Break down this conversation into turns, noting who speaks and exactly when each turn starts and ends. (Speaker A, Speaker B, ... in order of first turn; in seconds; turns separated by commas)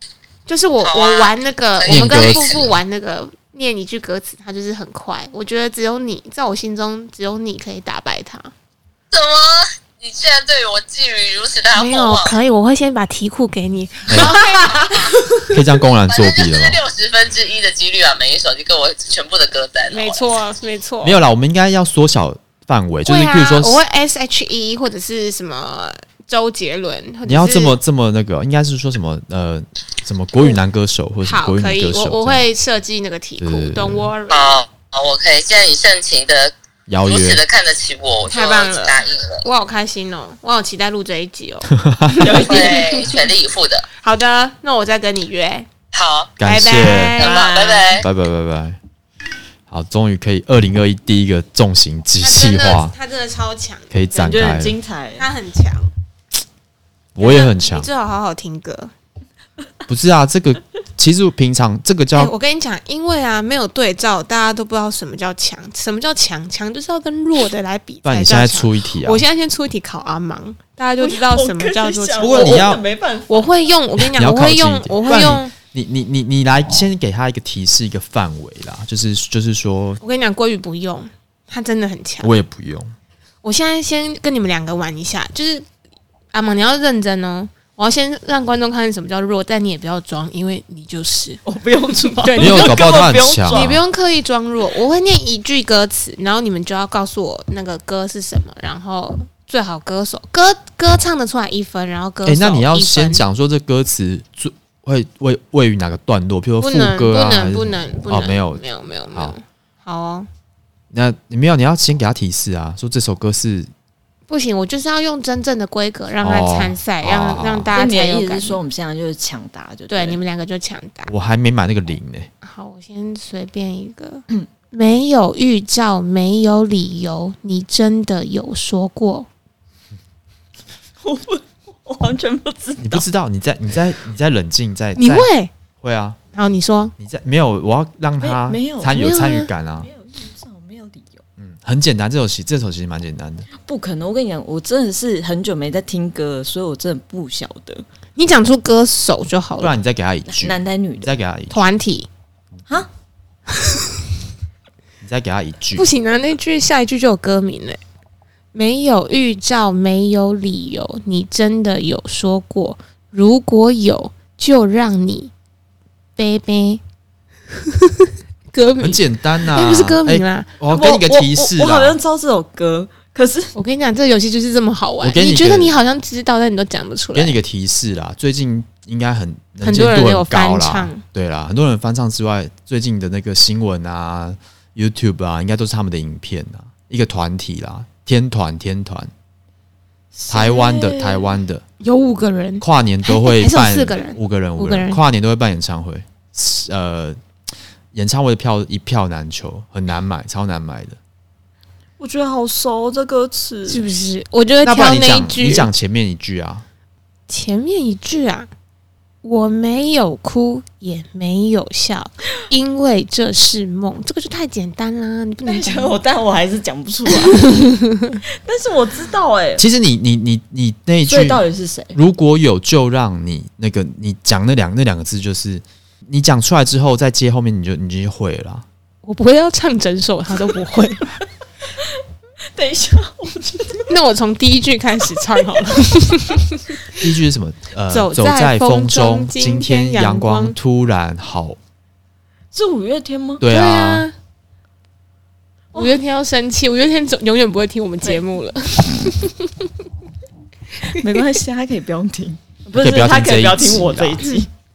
Speaker A: 0.5-8.5, Speaker B: 0.8-2.7, Speaker C: 1.9-2.7, Speaker B: 9.1-12.3, Speaker A: 11.7-15.5, Speaker C: 14.1-14.3, Speaker C: 15.5-16.8, Speaker B: 16.1-20.2, Speaker A: 19.9-21.2, Speaker C: 21.0-23.8, Speaker A: 23.1-27.8, Speaker C: 27.2-32.4, Speaker A: 31.2-34.6, Speaker C: 33.4-34.1, Speaker B: 34.3-39.4, Speaker C: 36.9-37.4, Speaker A: 38.2-41.7, Speaker C: 41.8-42.4, Speaker D: 42.2-42.8, Speaker A: 42.2-43.1, Speaker B: 42.4-43.9, Speaker A: 44.0-45.7, Speaker B: 45.9-46.3, Speaker C: 46.4-47.2, Speaker A: 46.4-47.5, Speaker B: 47.1-48.1, Speaker D: 47.2-47.9, Speaker C: 47.9-48.8, Speaker C: 49.7-52.9, Speaker A: 52.2-54.5, Speaker C: 53.9-54.8, Speaker D: 54.2-55.3, Speaker A: 55.2-55.9, Speaker C: 57.1-57.9, Speaker A: 57.2-58.9, Speaker C: 59.9-62.3, Speaker A: 62.1-72.7, Speaker C: 68.0-69.2, Speaker D: 71.0-73.5, Speaker C: 72.2-72.8, Speaker A: 73.3-75.5, Speaker C: 74.0-80.0, Speaker A: 80.0-82.3, Speaker C: 82.2-82.9, Speaker A: 83.4-85.6, Speaker A: 86.3-91.4, Speaker D: 91.4-93.8, Speaker A: 92.2-103.2, Speaker C: 92.4-93.8, Speaker C: 102.2-109.4, Speaker A: 106.6-110.3, Speaker C: 110.9-113.7, Speaker A: 114.3-118.6, Speaker C: 116.2-117.7, Speaker D: 117.7-120.2, Speaker A: 119.9-121.1, Speaker C: 121.1-122.3, Speaker A: 122.4-129.3, Speaker D: 131.0-133.0, Speaker C: 132.8-135.3, Speaker A: 134.9-135.5, Speaker C: 135.8-136.2, Speaker A: 136.3-136.9, Speaker C: 137.0-139.9, Speaker D: 138.2-139.0, Speaker A: 138.9-139.5, Speaker D: 139.8-141.2, Speaker C: 141.4-143.5, Speaker D: 143.6-147.8, Speaker A: 148.2-149.7, Speaker C: 149.6-151.7, Speaker D: 150.2-151.1, Speaker A: 151.5-152.1, Speaker C: 155.0-155.9, Speaker A: 155.7-157.8, Speaker A: 158.5-165.3, Speaker A: 166.2-166.8, Speaker A: 168.0-170.5, Speaker C: 168.8-172.0, Speaker D: 170.7-173.5, Speaker A: 173.5-177.4, Speaker C: 175.0-175.8, Speaker C: 177.1-189.1, Speaker A: 179.6-181.0, Speaker D: 190.1-191.4, Speaker C: 190.3-191.6, Speaker A: 191.8-195.0, Speaker C: 192.6-197.2, Speaker C: 197.9-201.0, Speaker D: 202.0-203.8, Speaker A: 203.7-205.7, Speaker C: 204.6-206.6, Speaker A: 207.3-208.5, Speaker A: 209.2-215.9, Speaker D: 215.4-217.6, Speaker D: 218.3-219.6, Speaker C: 219.6-228.7, Speaker D: 221.1-222.0, Speaker A: 229.0-231.2, Speaker D: 232.5-233.9, Speaker A: 233.9-236.9, Speaker C: 236.9-241.6, Speaker A: 237.9-240.6, Speaker D: 242.5-243.4, Speaker C: 243.4-244.1, Speaker A: 243.4-244.1, Speaker D: 245.7-246.0, Speaker A: 245.7-249.7, Speaker D: 250.9-254.5, Speaker C: 252.7-254.2